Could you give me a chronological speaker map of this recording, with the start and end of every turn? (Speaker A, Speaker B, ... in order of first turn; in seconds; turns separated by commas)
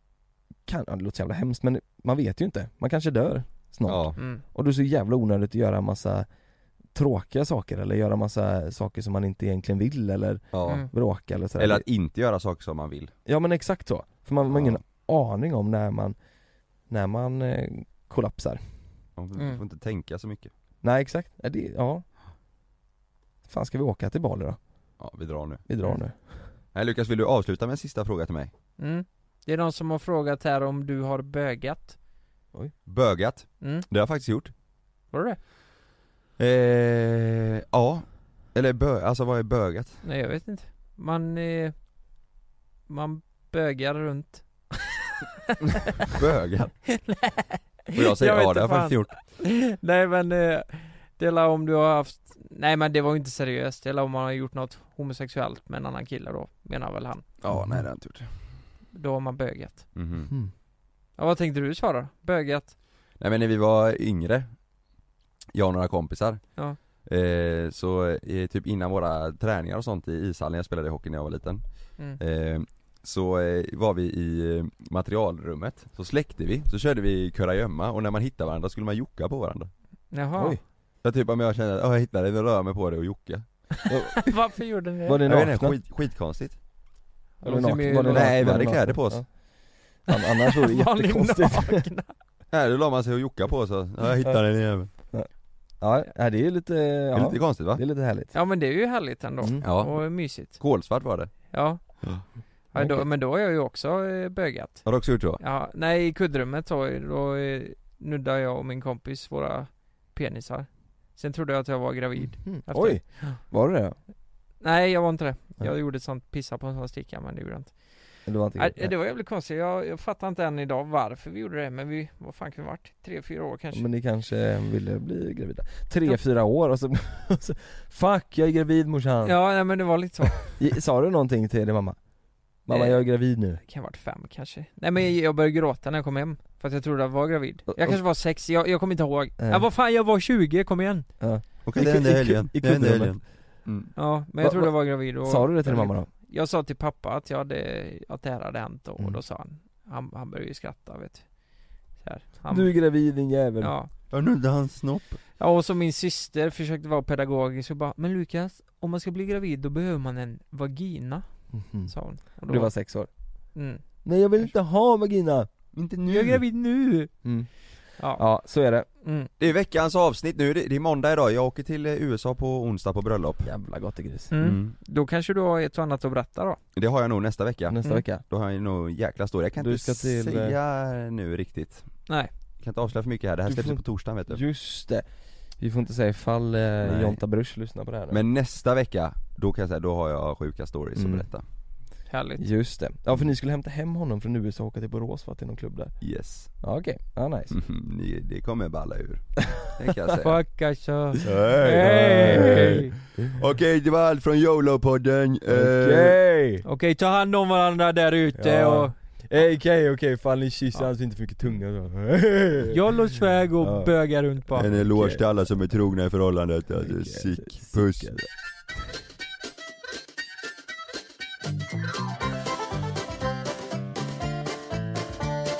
Speaker A: 0.6-6.3, Speaker B: 3.9-4.2, Speaker C: 4.2-4.4, Speaker A: 6.9-11.8, Speaker B: 10.5-10.8, Speaker B: 11.6-13.1, Speaker A: 13.2-16.1, Speaker B: 14.5-14.8, Speaker A: 16.8-18.6, Speaker B: 19.1-20.5, Speaker A: 20.8-22.0, Speaker A: 23.4-24.6, Speaker B: 25.0-25.6, Speaker A: 25.7-26.5, Speaker B: 26.7-28.5, Speaker C: 28.8-32.0, Speaker B: 32.9-34.5, Speaker C: 33.6-33.9, Speaker C: 35.1-35.4, Speaker B: 36.4-40.0, Speaker C: 40.0-41.8, Speaker C: 42.9-44.9, Speaker B: 46.1-47.0, Speaker C: 46.9-57.2, Speaker B: 47.9-49.3, Speaker B: 57.4-58.3, Speaker A: 57.5-57.9, Speaker C: 58.9-59.8, Speaker B: 59.9-60.3, Speaker C: 61.1-62.7, Speaker B: 63.2-64.6, Speaker B: 65.5-79.7, Speaker C: 80.1-80.6, Speaker A: 80.3-80.6, Speaker B: 81.0-83.8, Speaker A: 83.9-84.3, Speaker C: 84.2-85.3, Speaker A: 85.0-85.8, Speaker B: 85.2-86.6, Speaker C: 87.4-88.7, Speaker A: 87.4-91.8, Speaker B: 88.1-89.2, Speaker C: 90.1-92.2, Speaker B: 92.5-94.9, Speaker A: 94.2-98.3, Speaker B: 97.1-97.8, Speaker C: 98.3-100.6, Speaker A: 99.4-99.6, Speaker B: 99.6-102.2, Speaker C: 101.5-113.4, Speaker A: 102.7-103.0, Speaker B: 104.8-105.4, Speaker A: 112.2-114.0, Speaker C: 114.6-123.9, Speaker A: 118.2-118.9, Speaker A: 123.7-129.8, Speaker C: 129.2-130.6, Speaker A: 130.5-133.6, Speaker C: 132.7-141.1, Speaker A: 137.7-138.0, Speaker A: 139.4-139.7, Speaker A: 141.2-143.2, Speaker B: 141.6-143.9, Speaker C: 143.9-152.9, Speaker A: 144.4-146.1, Speaker A: 152.5-153.7, Speaker C: 153.6-153.9, Speaker B: 154.1-155.2, Speaker C: 155.4-162.7, Speaker A: 161.5-163.1, Speaker C: 163.5-163.8, Speaker A: 164.0-165.5, Speaker B: 165.7-166.4, Speaker C: 166.1-167.1, Speaker A: 167.2-168.9, Speaker C: 167.9-168.3, Speaker C: 168.9-169.3, Speaker B: 169.4-173.5, Speaker A: 173.4-174.3, Speaker C: 174.3-176.6, Speaker B: 174.4-174.7, Speaker B: 176.7-184.4, Speaker A: 177.7-178.2, Speaker A: 179.6-180.6, Speaker A: 183.5-185.1, Speaker A: 185.6-188.2, Speaker B: 186.8-187.2, Speaker B: 188.1-191.4, Speaker A: 190.9-191.3, Speaker C: 192.1-192.4, Speaker A: 192.4-196.0, Speaker B: 196.0-196.6, Speaker A: 196.6-197.6, Speaker B: 197.5-200.4, Speaker C: 200.2-202.9, Speaker B: 201.2-206.2, Speaker A: 201.4-203.4, Speaker A: 205.5-206.6, Speaker C: 206.6-208.9, Speaker A: 208.3-212.8, Speaker C: 212.7-214.7, Speaker A: 213.6-215.3, Speaker B: 214.6-218.2, Speaker A: 216.7-218.3